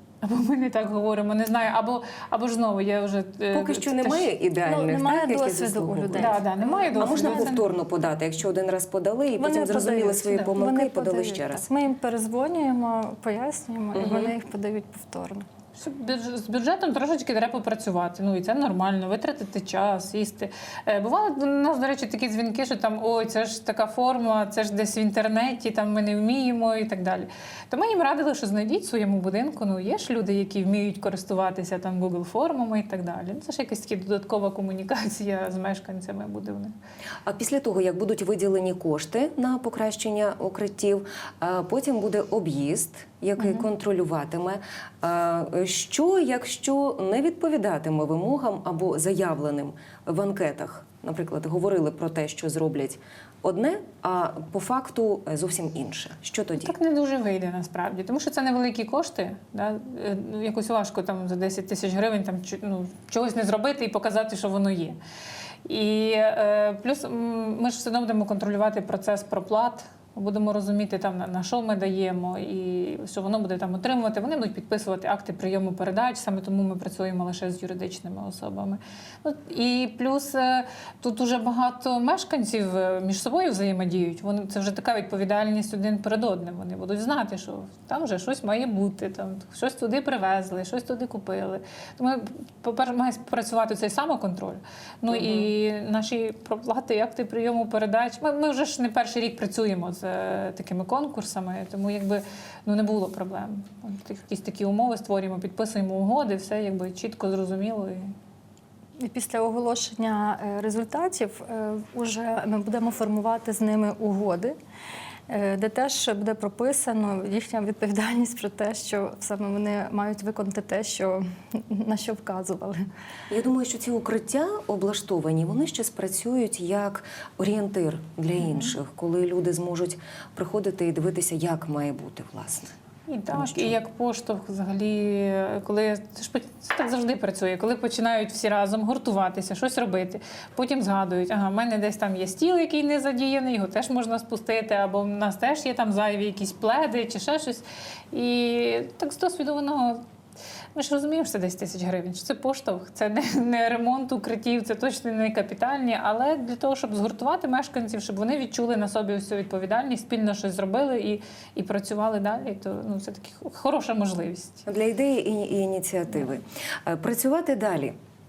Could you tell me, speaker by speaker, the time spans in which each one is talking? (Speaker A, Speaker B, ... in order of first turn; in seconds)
Speaker A: 0.2-4.3, 6.2-7.7, 15.8-36.7, 43.4-43.6, 56.6-65.0, 65.7-108.1, 133.1-150.0, 150.7-164.6
Speaker B: 3.5-6.4, 7.0-11.6, 13.9-14.3, 37.2-56.7, 95.1-95.5, 123.3-132.7, 133.3-133.8, 164.7-167.9
Speaker C: 4.6-7.5, 9.3-15.4, 109.0-114.5, 115.3-122.8